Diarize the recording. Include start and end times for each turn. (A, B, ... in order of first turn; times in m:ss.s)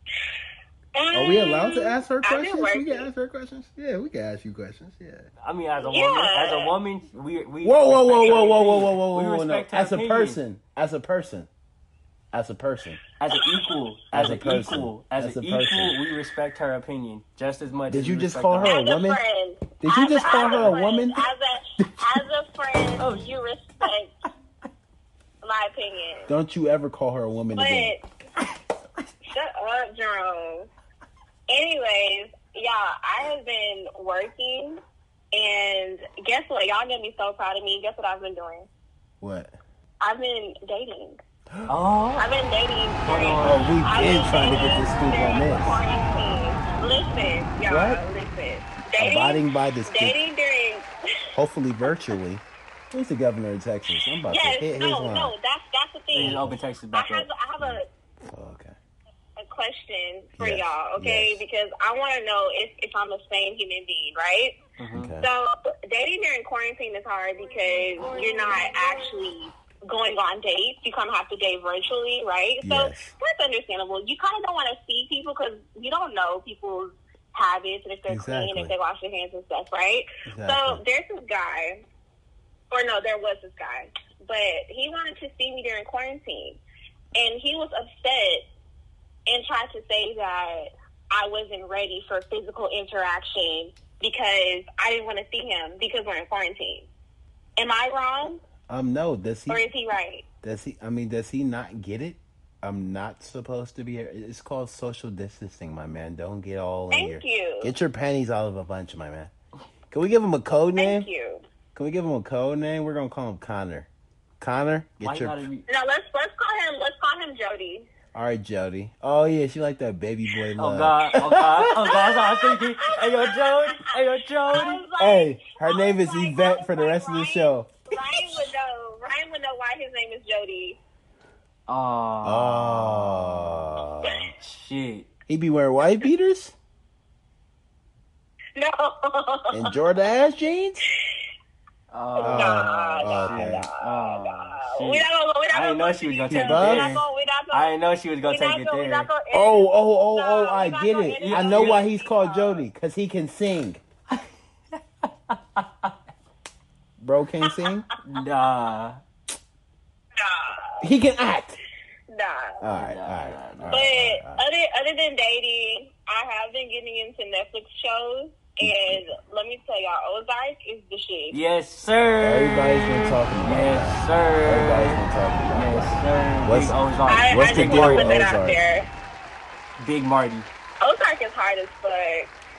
0:01.0-0:03.1 A
0:01.1-0:05.3 B
0:05.4-0:10.4 C
0:05.8-0:06.7 A
0:07.6-0:11.5 B
0:12.3-0:13.0 B
0:13.2-0:18.8 C
0:14.1-0:16.0 B
0:17.9-0:19.2 B
0:18.6-0:24.1 A
0:19.8-0:21.3 B
0:20.3-0:20.7 C
0:21.8-0:22.1 B
0:23.0-0:23.3 C
0:25.4-0:26.3 A
0:26.3-0:28.0 B
0:27.5-0:28.0 A
0:29.3-0:30.7 A
0:31.5-0:34.8 A
0:35.3-0:38.7 A
0:39.2-0:39.6 B
0:40.0-0:41.2 A
0:41.7-0:42.3 C
0:42.2-0:51.3 A
0:43.0-0:43.7 C
0:43.4-0:45.8 B
0:47.7-0:48.0 B
0:49.0-0:50.2 B
0:51.3-0:55.3 B
0:54.3-0:57.9 A
0:56.1-0:57.3 C
0:56.2-0:56.6 B
0:57.6-0:58.8 B
0:59.4-1:04.6 A
1:00.4-1:01.4 B
1:04.8-1:05.1 C
1:04.9-1:05.3 B
1:05.2-1:21.8 A
1:07.6-1:09.2 C
1:12.6-1:13.2 B
1:18.1-1:18.7 B
1:20.3-1:20.8 B
1:22.7-1:26.6 A
1:27.2-1:28.5 A
1:29.3-1:36.9 A
1:37.6-1:38.4 A
1:38.7-1:39.7 B
1:39.5-1:40.2 A
1:40.4-1:49.3 B
1:46.9-1:47.7 A
1:49.9-1:51.1 B
1:50.8-1:51.4 A
1:51.8-1:53.9 B
1:54.4-1:55.4 B
1:55.0-1:55.6 C
1:55.7-1:57.9 A
1:58.1-2:02.0 B
2:00.6-2:04.8 C
2:01.8-2:04.0 A
2:04.5-2:10.8 A
2:05.0-2:07.7 B
2:11.7-2:13.6 C
2:12.2-2:14.3 B
2:14.4-2:15.1 C
2:15.3-2:16.6 B
2:18.6-2:19.7 A
2:19.5-2:20.8 B
2:21.9-2:29.1 C
2:22.2-2:23.7 B
2:22.3-2:27.7 A
2:26.3-2:27.0 B
2:28.2-2:32.6 A
2:29.3-2:33.8 B
2:31.2-2:31.8 C
2:34.1-2:35.9 C
2:37.0-2:37.9 B
2:37.4-2:37.8 A
2:38.0-2:39.0 C
2:40.2-2:40.9 A
2:40.8-2:41.6 B
2:42.1-2:42.6 A
2:42.6-2:44.4 B
2:42.7-2:43.9 C
2:43.7-2:51.4 A
2:48.6-2:49.0 B
2:51.3-2:55.0 C
2:52.2-2:56.8 B
2:55.5-2:58.2 C
2:57.1-2:58.9 A
2:57.3-2:58.6 B
2:59.8-3:00.5 C
3:00.8-3:02.3 A